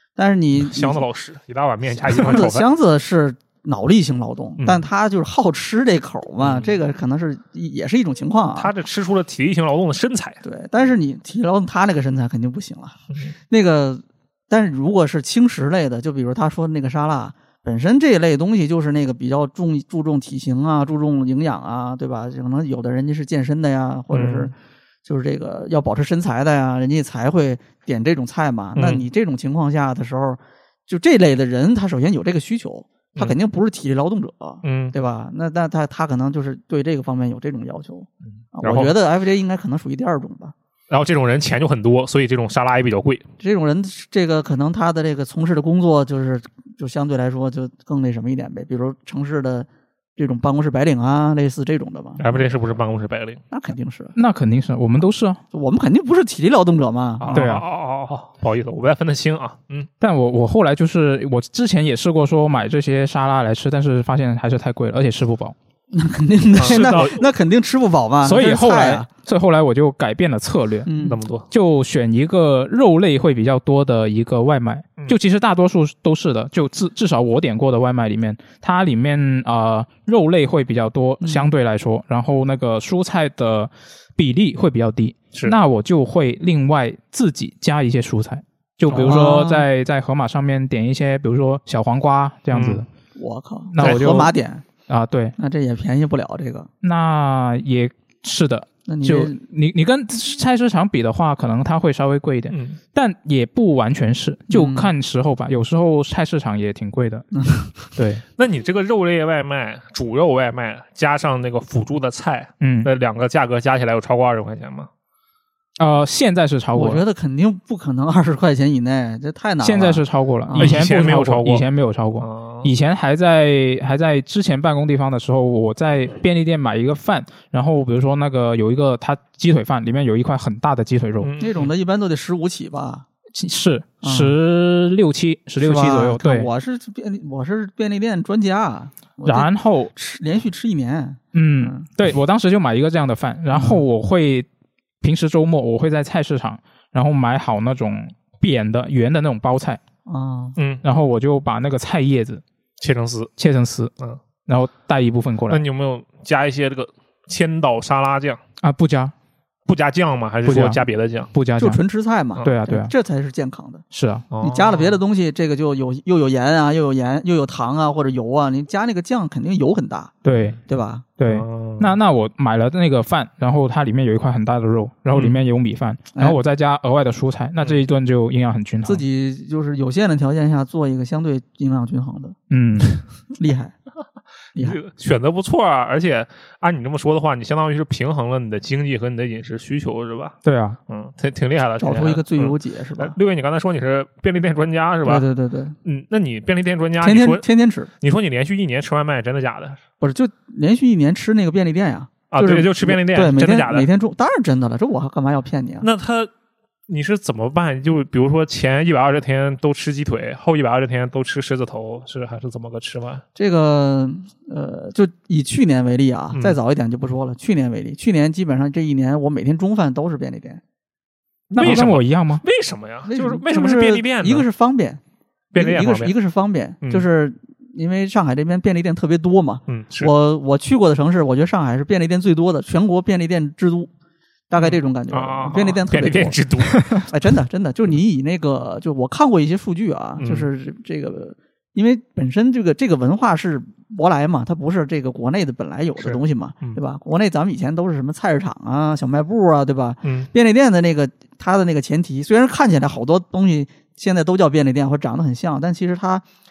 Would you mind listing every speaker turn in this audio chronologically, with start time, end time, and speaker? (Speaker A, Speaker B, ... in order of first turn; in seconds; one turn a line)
Speaker A: 0.2-1.0
Speaker B: 0.6-2.7
Speaker A: 2.0-8.7
Speaker B: 4.6-4.8
Speaker B: 6.4-6.8
Speaker B: 8.6-10.4
Speaker A: 10.4-13.0
Speaker A: 13.5-24.5
Speaker B: 24.1-24.5
Speaker A: 25.1-40.5
Speaker B: 28.8-29.0
Speaker B: 34.6-34.9
Speaker B: 38.6-38.9
Speaker B: 40.9-43.3
Speaker A: 43.4-52.5
Speaker B: 52.2-53.4
Speaker A: 53.5-54.1
Speaker C: 54.1-55.4
Speaker A: 55.5-57.4
Speaker B: 57.2-59.9
Speaker C: 57.3-57.6
Speaker C: 60.0-65.6
Speaker A: 65.9-69.1
Speaker B: 66.6-67.2
Speaker C: 68.2-70.9
Speaker A: 70.8-71.2
Speaker B: 71.0-71.5
Speaker C: 71.5-92.9
Speaker A: 81.2-81.5
Speaker A: 88.9-89.7
Speaker B: 92.5-92.9
Speaker A: 93.2-94.6
Speaker C: 93.7-94.3
Speaker B: 93.8-94.2
Speaker C: 94.9-95.3
Speaker A: 95.4-96.7
Speaker C: 96.8-107.3
Speaker A: 98.9-99.4
Speaker B: 102.5-102.8
Speaker A: 104.5-104.9
Speaker A: 107.3-107.7
Speaker C: 108.0-108.2
Speaker B: 108.4-114.9
Speaker C: 112.6-112.9
Speaker C: 115.8-117.0
Speaker A: 116.7-120.8
Speaker C: 119.6-131.3
Speaker B: 120.6-121.7
Speaker B: 122.2-122.7
Speaker B: 131.2-131.7
Speaker A: 131.4-133.1
Speaker C: 133.3-136.5
Speaker A: 134.0-134.4
Speaker A: 135.6-141.9
Speaker C: 139.2-139.9
Speaker C: 141.3-144.5
Speaker A: 143.5-143.8
Speaker C: 145.0-149.8
Speaker A: 150.1-150.6
Speaker B: 150.6-150.8
Speaker C: 150.8-152.4
Speaker B: 152.8-153.3
Speaker C: 153.4-153.9
Speaker C: 154.5-155.6
Speaker B: 155.5-158.4
Speaker C: 158.6-159.1
Speaker B: 159.7-161.3
Speaker C: 160.4-160.8
Speaker C: 161.3-161.8
Speaker A: 161.6-163.8
Speaker C: 162.4-162.9
Speaker C: 163.9-164.3
Speaker B: 164.3-165.0
Speaker A: 164.4-170.1
Speaker C: 170.2-170.6
Speaker A: 170.7-171.1
Speaker C: 171.2-179.0
Speaker B: 171.3-172.0
Speaker A: 178.8-182.4
Speaker C: 182.5-183.0
Speaker A: 183.3-183.8
Speaker B: 184.6-190.4
Speaker C: 190.4-190.8
Speaker B: 190.9-195.3
Speaker A: 191.8-193.2
Speaker A: 195.0-195.8
Speaker B: 195.8-197.5
Speaker A: 197.0-197.9
Speaker B: 198.0-199.8
Speaker A: 200.0-205.9
Speaker B: 202.3-203.9
Speaker B: 205.8-206.3
Speaker B: 206.9-213.2
Speaker A: 213.4-220.6
Speaker B: 221.5-224.5
Speaker C: 221.6-222.4
Speaker A: 223.1-225.0
Speaker B: 225.5-226.1
Speaker A: 225.6-233.9
Speaker B: 229.7-230.1
Speaker A: 234.5-256.2
Speaker B: 234.6-236.9
Speaker B: 240.2-240.5
Speaker B: 246.0-246.8
Speaker B: 250.0-250.3